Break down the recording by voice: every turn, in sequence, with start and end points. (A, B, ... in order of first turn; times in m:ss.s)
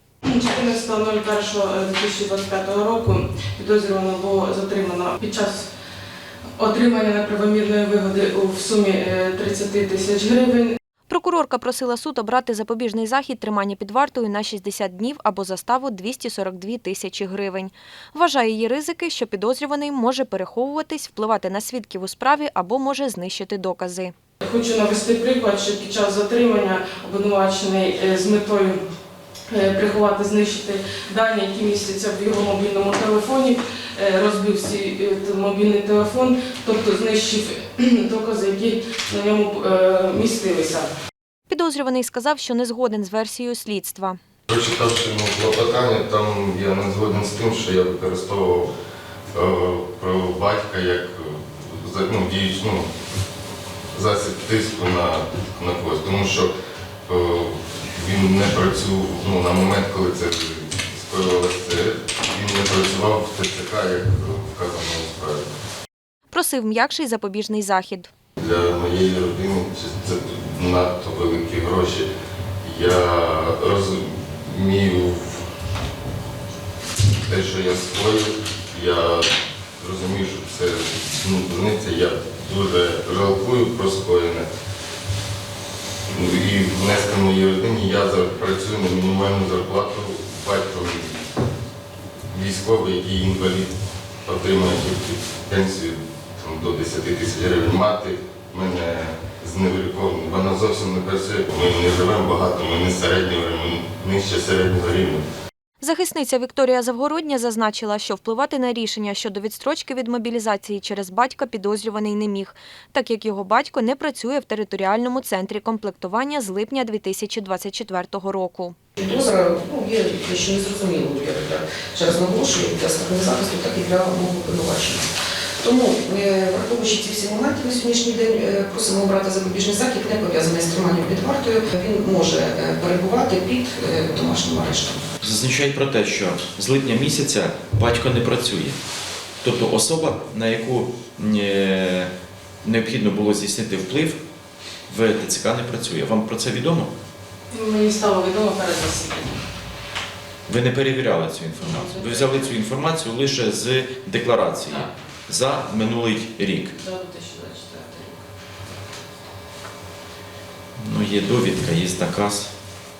0:00.2-0:05.7 A
0:06.6-0:10.7 A
0:11.1-0:24.1 B
0:24.4-0:28.8 A
0:29.5-0:40.9 A
0:41.5-0:44.2 B
0:44.5-0:48.7 C
0:49.3-0:52.9 C
0:53.9-0:56.5 C
0:57.1-1:05.4 C
1:06.3-1:08.1 B
1:08.4-1:12.1 C
1:12.6-1:15.4 C
1:17.2-1:24.5 C
1:26.1-1:31.2 C
1:32.3-1:33.7 C
1:34.2-1:45.2 C
1:45.8-1:58.8 B
1:59.0-2:05.1 D
2:05.6-2:15.0 D
2:15.2-2:18.8 E
2:19.4-2:22.1 E
2:22.6-2:24.2 E
2:24.9-2:26.9 E
2:27.5-2:29.4 A
2:30.4-2:36.7 E
2:31.7-2:32.4 A
2:36.7-2:38.2 A
2:40.8-2:42.5 E